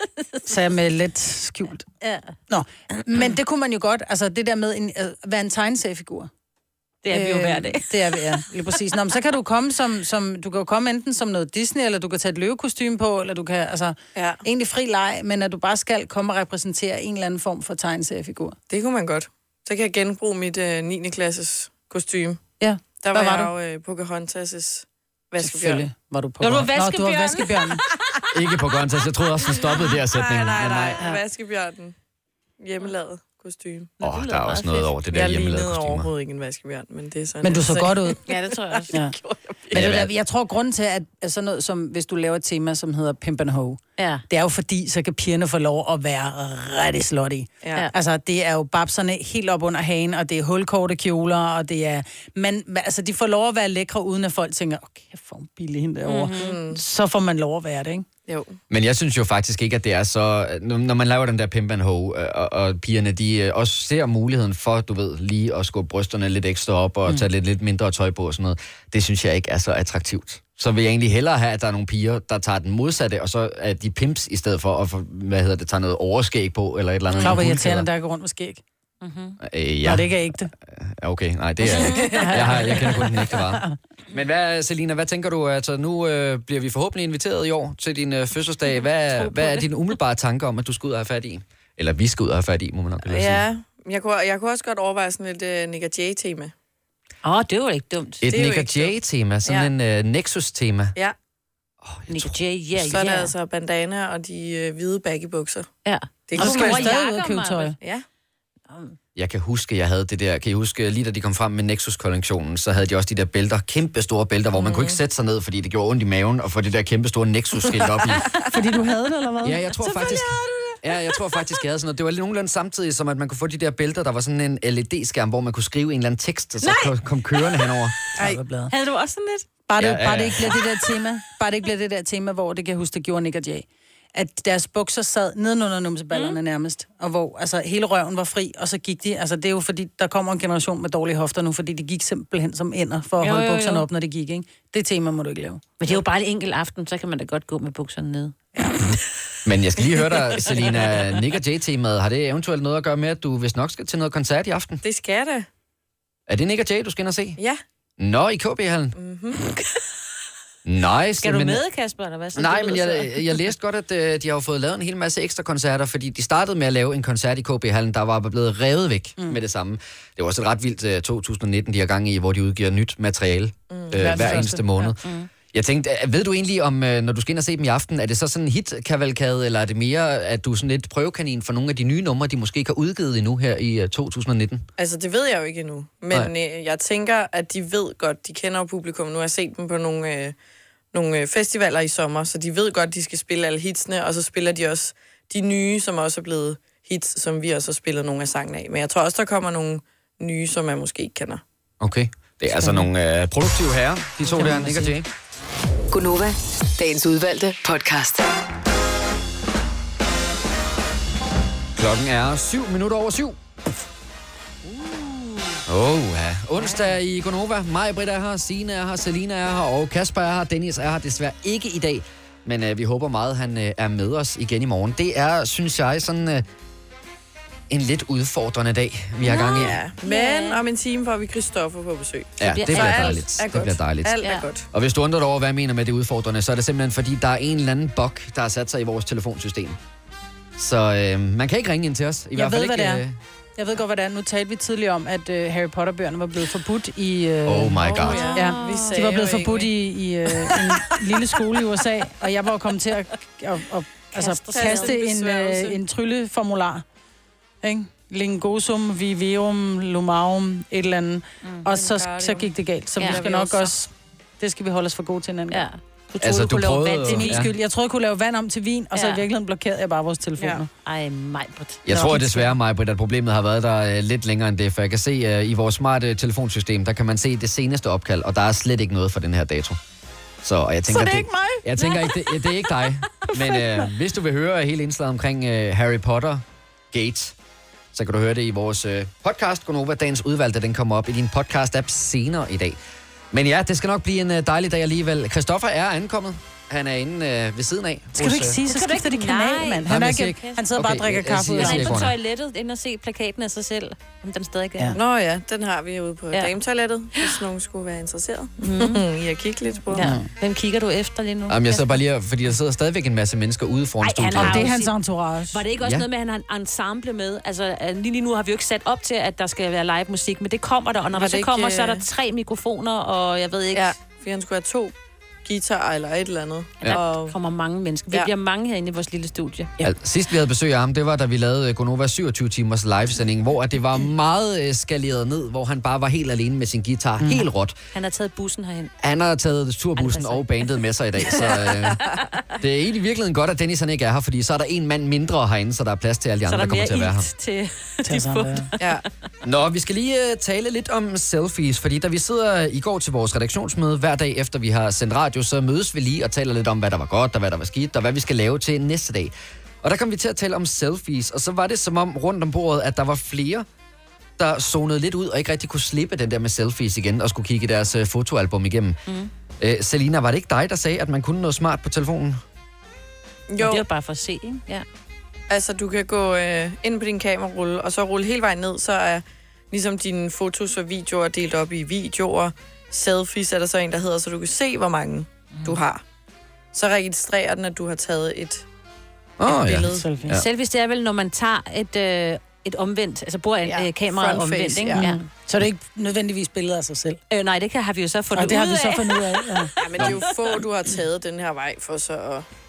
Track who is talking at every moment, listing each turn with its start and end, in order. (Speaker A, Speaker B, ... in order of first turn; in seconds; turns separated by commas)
Speaker A: 0.5-1.9, Speaker B: 2.0-2.3, Speaker A: 2.5-6.3, Speaker B: 7.0-8.4, Speaker A: 7.1-18.6, Speaker C: 14.2-14.4, Speaker C: 18.7-22.4, Speaker A: 22.6-23.5, Speaker C: 23.0-25.9, Speaker A: 25.4-27.8, Speaker B: 26.4-28.1, Speaker D: 28.3-31.0, Speaker C: 29.7-31.9, Speaker C: 32.6-33.9, Speaker B: 34.0-35.0, Speaker D: 34.0-36.1, Speaker C: 35.1-39.7, Speaker A: 37.4-38.2, Speaker B: 38.3-39.0, Speaker D: 39.7-40.1, Speaker A: 39.7-58.1, Speaker B: 44.0-44.2, Speaker C: 47.6-47.9, Speaker B: 56.1-56.6, Speaker C: 56.4-56.8, Speaker C: 58.3-58.6, Speaker D: 58.7-77.9, Speaker C: 77.1-77.4, Speaker A: 77.2-78.6, Speaker B: 79.0-79.4, Speaker D: 79.4-93.5, Speaker A: 79.8-80.5, Speaker B: 81.7-82.9, Speaker C: 81.7-82.5, Speaker A: 82.2-83.7, Speaker B: 89.1-89.7, Speaker C: 93.0-96.5, Speaker B: 97.2-98.2, Speaker D: 98.2-101.0, Speaker C: 98.3-99.7, Speaker D: 101.8-103.0, Speaker B: 102.1-103.3, Speaker C: 102.9-105.7, Speaker B: 105.8-107.8, Speaker C: 106.3-106.9, Speaker A: 106.4-107.8, Speaker C: 107.8-108.0, Speaker B: 108.7-109.0, Speaker D: 109.2-118.3, Speaker C: 114.5-115.0, Speaker A: 118.5-120.2, Speaker D: 119.4-128.0, Speaker B: 126.6-126.9, Speaker A: 128.2-128.7, Speaker B: 128.7-129.5, Speaker A: 129.7-145.7, Speaker D: 129.8-130.6, Speaker B: 136.1-136.4, Speaker B: 143.2-143.9, Speaker B: 145.8-148.4, Speaker D: 149.4-154.8, Speaker B: 150.4-151.2, Speaker C: 154.8-155.5, Speaker D: 156.3-157.4, Speaker D: 158.0-159.0, Speaker C: 158.9-159.6, Speaker D: 160.7-161.6, Speaker B: 161.2-163.5, Speaker D: 162.3-175.0, Speaker C: 173.7-174.3, Speaker A: 174.0-174.7, Speaker B: 175.0-175.3, Speaker D: 175.5-184.7, Speaker C: 184.8-190.3, Speaker C: 190.9-201.4, Speaker D: 201.8-205.1, Speaker A: 204.3-204.9, Speaker E: 205.9-208.3, Speaker D: 211.8-213.4, Speaker D: 215.7-226.4, Speaker D: 227.7-229.8, Speaker B: 229.2-230.6, Speaker C: 229.5-234.7, Speaker D: 232.4-234.2, Speaker B: 232.4-233.2, Speaker B: 234.2-234.5, Speaker D: 234.7-239.8, Speaker D: 240.6-243.2, Speaker A: 242.4-243.0, Speaker A: 243.6-256.8, Speaker D: 247.5-248.3, Speaker C: 247.8-249.7, Speaker B: 248.0-249.2, Speaker B: 254.1-255.0, Speaker C: 254.5-255.8, Speaker A: 257.6-265.6, Speaker C: 261.7-262.5, Speaker C: 263.0-263.7, Speaker B: 265.5-267.5, Speaker D: 266.2-267.5, Speaker A: 267.1-270.7, Speaker B: 268.9-269.2, Speaker B: 270.8-271.8, Speaker D: 271.9-279.8, Speaker A: 271.9-272.6, Speaker D: 280.4-287.4, Speaker A: 280.9-281.6, Speaker B: 281.8-282.5, Speaker D: 287.9-292.8, Speaker D: 293.3-298.6, Speaker A: 298.2-302.0, Speaker B: 298.7-300.6, Speaker D: 299.9-302.1, Speaker B: 301.6-305.0, Speaker C: 304.9-310.1, Speaker B: 307.2-307.4, Speaker B: 308.6-309.0, Speaker B: 309.9-312.0, Speaker A: 310.0-310.3, Speaker D: 311.5-314.7, Speaker B: 314.0-314.9, Speaker A: 314.4-315.6, Speaker B: 315.5-323.9, Speaker D: 315.8-316.1, Speaker C: 321.1-322.0, Speaker C: 323.7-324.9, Speaker C: 325.4-327.4, Speaker B: 326.8-329.8, Speaker D: 329.8-337.8, Speaker B: 337.9-338.9, Speaker D: 339.0-342.0, Speaker B: 340.0-340.7, Speaker D: 342.6-347.3, Speaker B: 346.5-349.0, Speaker A: 348.1-348.7, Speaker C: 348.8-349.1, Speaker D: 349.4-363.7, Speaker D: 364.4-369.0, Speaker D: 369.6-372.4, Speaker C: 373.5-373.8, Speaker B: 373.6-374.9, Speaker C: 375.5-386.0, Speaker C: 386.7-388.7, Speaker D: 389.4-390.5, Speaker C: 389.4-390.0, Speaker A: 389.9-390.4, Speaker B: 390.3-395.2, Speaker C: 393.6-395.1, Speaker A: 395.0-397.2, Speaker B: 397.3-400.6, Speaker A: 398.3-399.7, Speaker C: 399.8-402.5, Speaker D: 400.0-400.2